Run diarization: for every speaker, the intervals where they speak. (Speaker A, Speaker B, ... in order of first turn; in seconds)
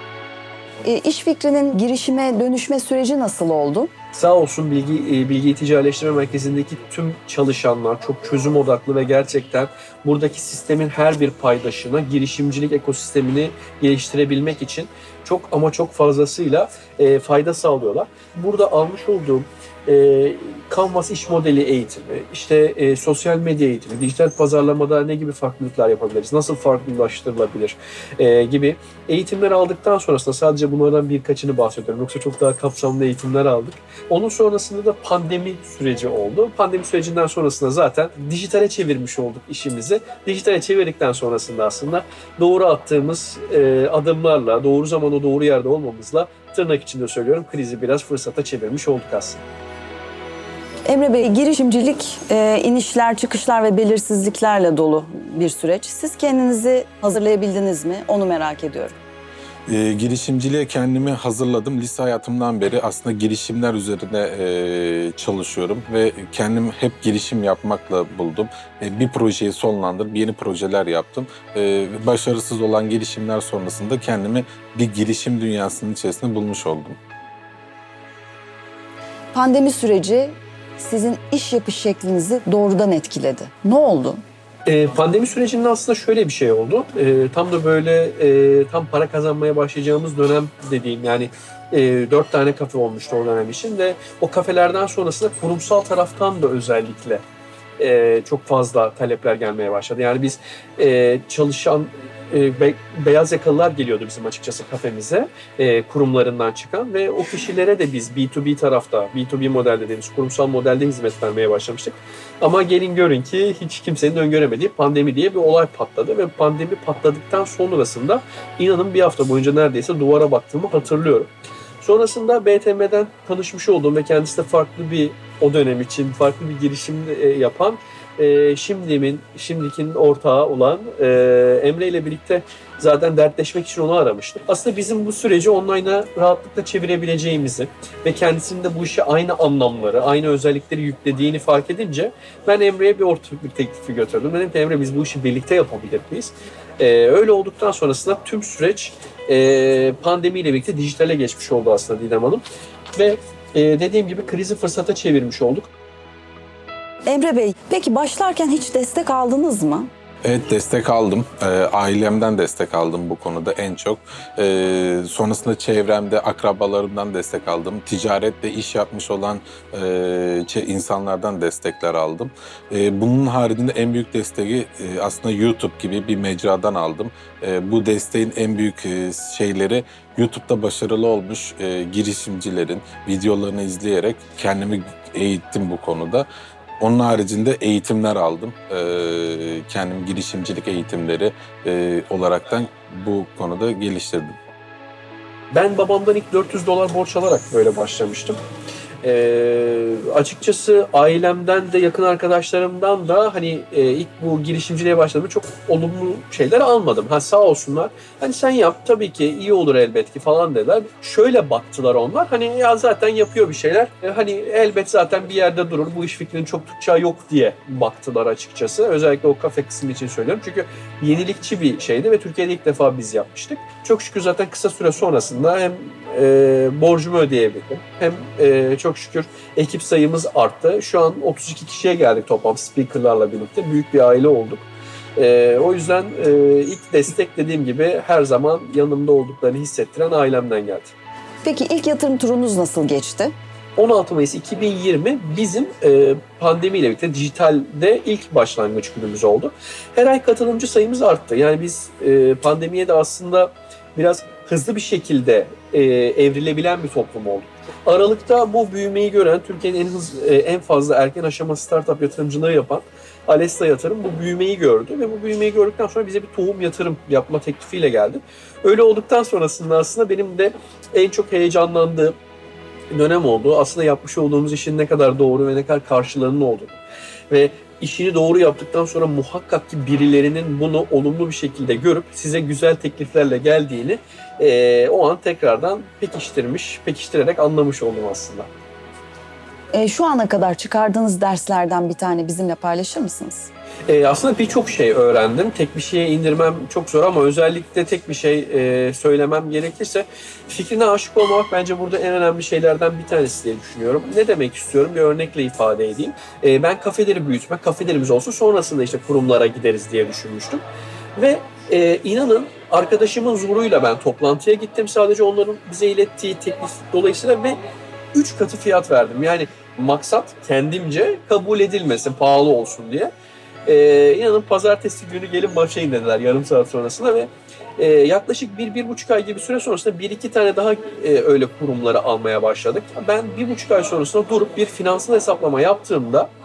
Speaker A: 0.8-3.9, 50.9-59.0, 79.3-84.2, 157.1-159.9, 241.4-243.3, 289.7-293.5
Speaker B: 4.1-49.4, 84.7-97.2, 97.8-121.3, 121.8-152.4, 152.9-155.7, 195.5-198.4, 199.0-240.9, 243.8-272.1, 272.9-276.8, 277.3-288.5, 293.9-310.6, 311.2-317.6, 318.1-323.1, 323.7-336.3
Speaker C: 59.7-77.0, 160.2-186.3, 186.8-194.4